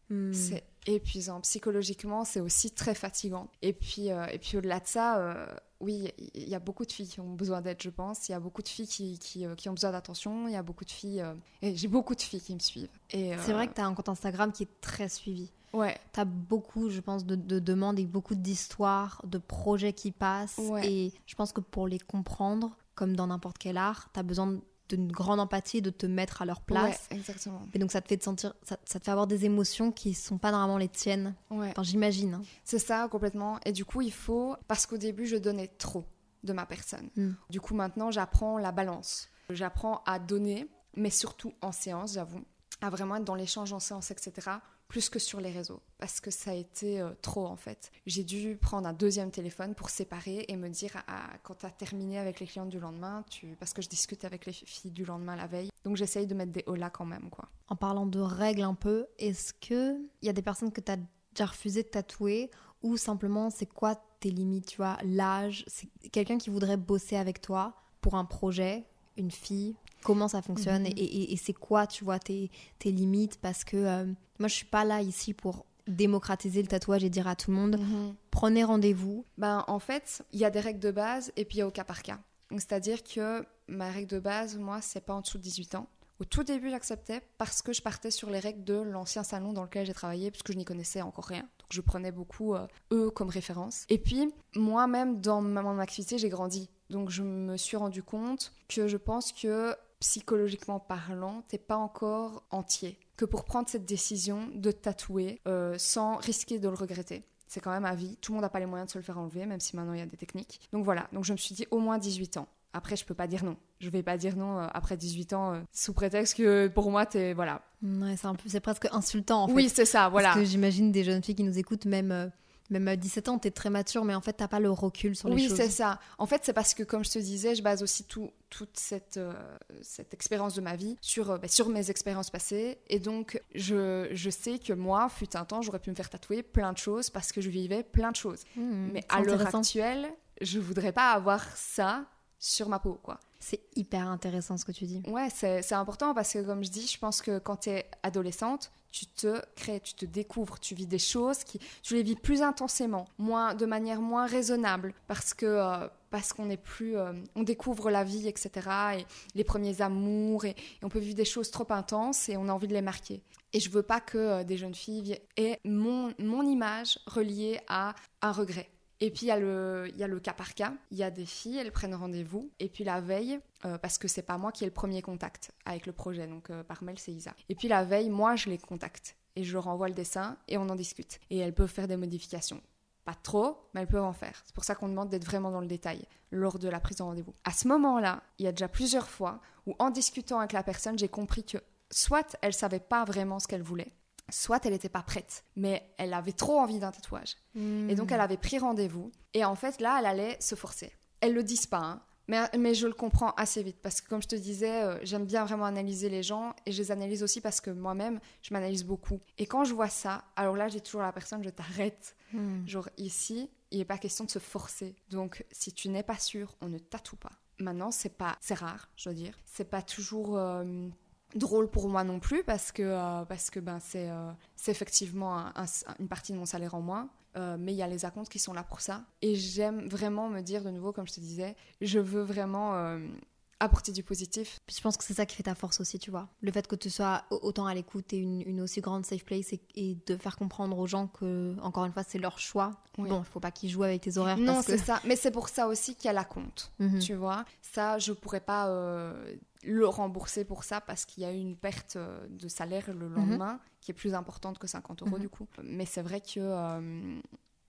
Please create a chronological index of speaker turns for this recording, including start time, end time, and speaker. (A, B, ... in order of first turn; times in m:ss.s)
0:00.1-0:00.6 A
0:00.3-0:13.7 B
0:13.4-0:15.5 A
0:15.7-0:16.0 B
0:16.1-0:27.0 A
0:20.6-0:20.9 B
0:26.7-0:27.7 B
0:27.7-0:32.5 A
0:31.5-0:31.8 B
0:32.6-0:57.5 B
0:57.7-1:19.3 A
1:10.6-1:11.0 B
1:17.7-1:18.2 B
1:19.4-1:57.6 B
1:57.8-2:05.8 A
1:59.5-2:00.4 B
2:05.2-2:23.2 B
2:18.6-2:19.7 A
2:23.4-2:25.0 A
2:25.0-3:54.6 B
3:17.5-3:18.2 A
3:32.3-3:32.7 A
3:54.7-4:04.8 A
4:04.2-4:17.2 B
4:06.8-4:07.1 A
4:13.2-4:13.4 A